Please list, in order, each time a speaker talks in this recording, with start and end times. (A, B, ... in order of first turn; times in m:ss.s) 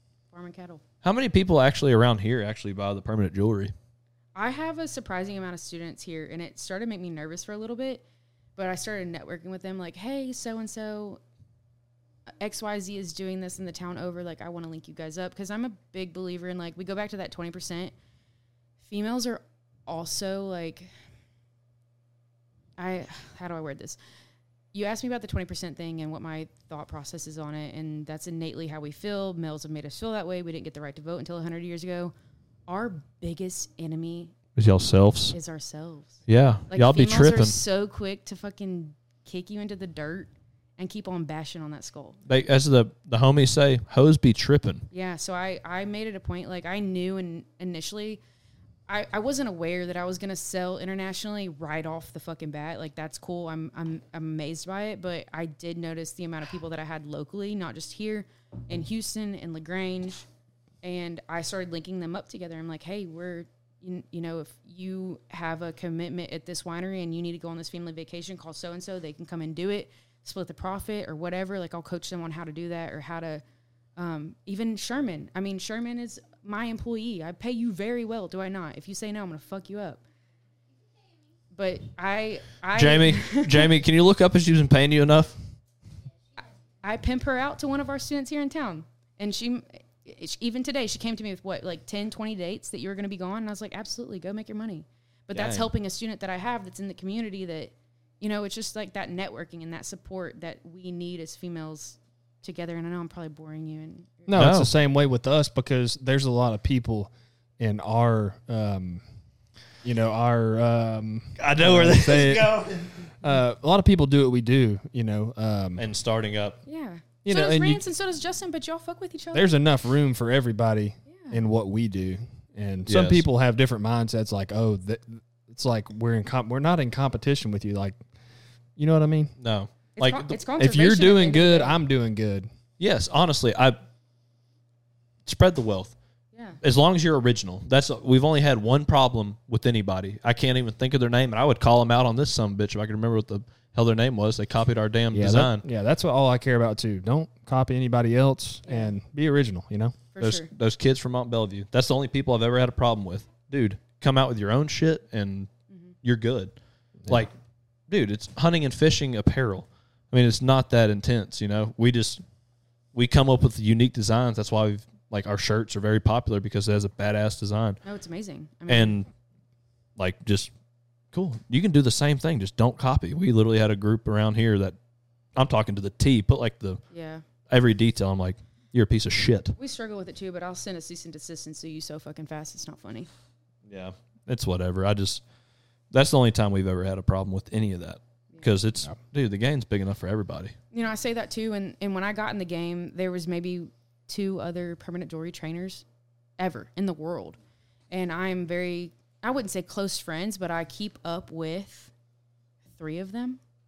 0:00.3-0:00.8 A
0:01.0-0:03.7 B
0:04.4-0:08.0 A
0:08.6-0:11.2 A
0:12.4-0:17.9 A
0:18.8-0:20.9 A
0:22.8-0:24.0 A
0:24.7-0:32.1 A
0:32.7-0:34.3 A
0:34.6-0:35.4 B
0:35.3-0:36.2 A
0:36.3-0:37.6 B
0:36.7-0:42.2 A
0:42.3-0:44.9 B
0:44.9-0:48.2 A
0:48.9-1:00.3 A
1:00.8-1:13.4 A
1:14.0-1:20.0 A
1:21.5-1:23.7 A
1:22.8-1:25.4 B
1:26.8-1:44.4 A
1:35.3-1:35.7 B
1:44.3-1:49.0 C
1:44.4-1:44.7 B
1:49.8-1:52.6 C
1:51.4-1:53.0 B
1:53.2-1:55.8 C
1:55.8-1:56.6 B
1:56.7-1:59.6 A
1:57.2-1:57.8 C
1:59.3-2:08.0 C
2:01.1-2:01.4 A
2:02.9-2:03.2 B
2:08.8-2:09.3 C
2:09.4-2:10.4 B
2:10.0-2:11.8 A
2:10.6-2:12.5 C
2:12.8-2:13.8 B
2:15.3-2:15.9 B
2:16.6-2:25.6 B
2:25.1-2:30.0 C
2:28.6-2:28.9 A
2:30.1-2:30.5 A
2:30.2-2:35.5 B
2:36.0-2:36.5 B
2:37.9-2:42.2 B
2:42.9-2:47.8 B
2:47.8-2:49.0 A
2:48.7-2:49.1 B
2:50.0-2:50.5 B
2:51.1-2:54.8 B
2:55.4-2:56.8 B
2:56.9-2:57.2 A
2:57.5-2:59.6 B
2:59.6-3:03.1 A
3:03.7-3:05.2 B
3:05.9-3:10.6 B
3:10.7-3:15.8 A
3:16.4-3:17.4 A
3:17.9-3:21.9 A
3:22.7-3:23.4 A